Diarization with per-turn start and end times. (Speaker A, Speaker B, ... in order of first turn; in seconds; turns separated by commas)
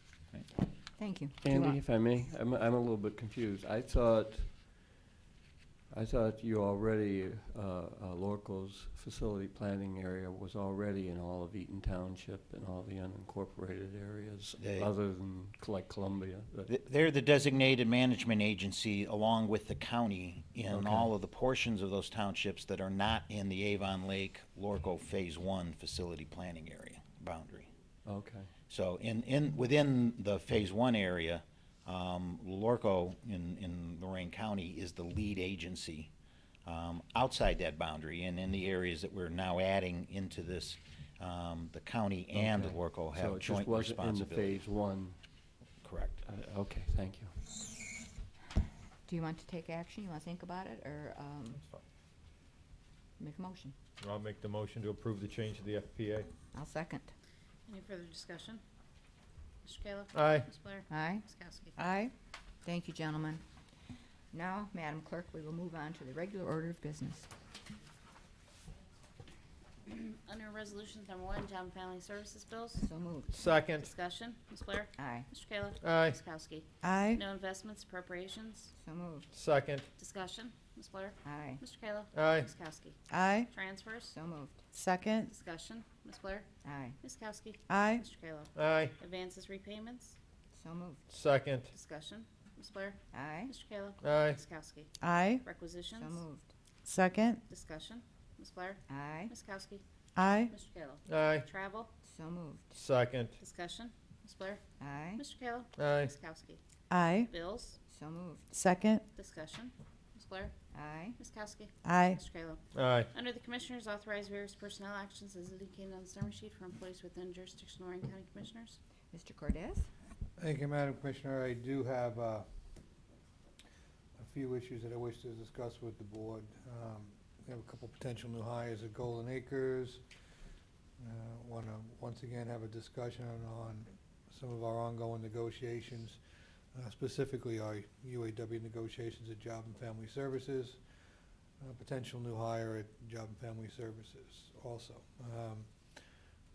Speaker A: 1.0-1.8, Speaker B: 1.4-4.7, Speaker B: 5.9-16.7, Speaker C: 14.6-14.9, Speaker C: 16.7-27.7, Speaker B: 20.7-21.1, Speaker B: 28.1-28.5, Speaker C: 28.7-36.1, Speaker C: 36.7-44.7, Speaker B: 42.3-45.2, Speaker C: 45.8-46.2, Speaker B: 46.2-47.3, Speaker A: 49.0-51.6, Speaker A: 53.2-53.8, Speaker D: 54.0-56.3, Speaker A: 56.5-57.1, Speaker E: 57.7-58.6, Speaker E: 59.6-61.8, Speaker D: 60.1-60.5, Speaker A: 60.9-61.2, Speaker A: 61.8-62.1, Speaker A: 62.6-63.4, Speaker A: 64.3-67.3, Speaker E: 69.8-72.9, Speaker A: 72.8-73.3, Speaker D: 73.3-73.9, Speaker E: 73.8-78.7, Speaker A: 75.0-75.3, Speaker D: 75.8-76.2, Speaker F: 76.8-77.2, Speaker A: 78.8-79.3, Speaker D: 79.3-79.8, Speaker E: 80.0-84.1, Speaker A: 81.2-81.6, Speaker D: 82.1-82.5, Speaker F: 83.1-83.5, Speaker A: 84.1-84.6, Speaker F: 84.7-85.3, Speaker E: 85.2-86.5, Speaker A: 86.6-87.0, Speaker E: 87.0-90.2, Speaker F: 87.7-88.0, Speaker D: 88.5-88.9, Speaker A: 90.5-91.0, Speaker D: 91.1-91.7, Speaker E: 91.7-96.2, Speaker A: 93.1-93.5, Speaker D: 94.0-94.4, Speaker F: 95.0-95.4, Speaker A: 96.0-96.5, Speaker F: 96.9-97.4, Speaker E: 97.5-99.8, Speaker A: 98.9-99.3, Speaker F: 100.2-100.5, Speaker E: 100.4-101.9, Speaker D: 101.1-101.5, Speaker A: 102.0-102.7, Speaker D: 102.7-103.3, Speaker E: 103.4-104.6, Speaker A: 104.8-105.2, Speaker E: 105.2-106.6, Speaker D: 105.8-106.1, Speaker F: 106.9-107.3, Speaker E: 107.3-107.8, Speaker A: 107.9-108.5, Speaker F: 108.5-109.0, Speaker E: 109.1-110.5, Speaker A: 110.7-111.2, Speaker E: 111.2-118.8, Speaker F: 111.8-112.2, Speaker D: 112.7-113.1, Speaker A: 119.1-119.9, Speaker G: 120.4-122.5, Speaker G: 124.2-130.0, Speaker G: 131.0-136.2, Speaker G: 136.7-140.8, Speaker G: 141.6-145.7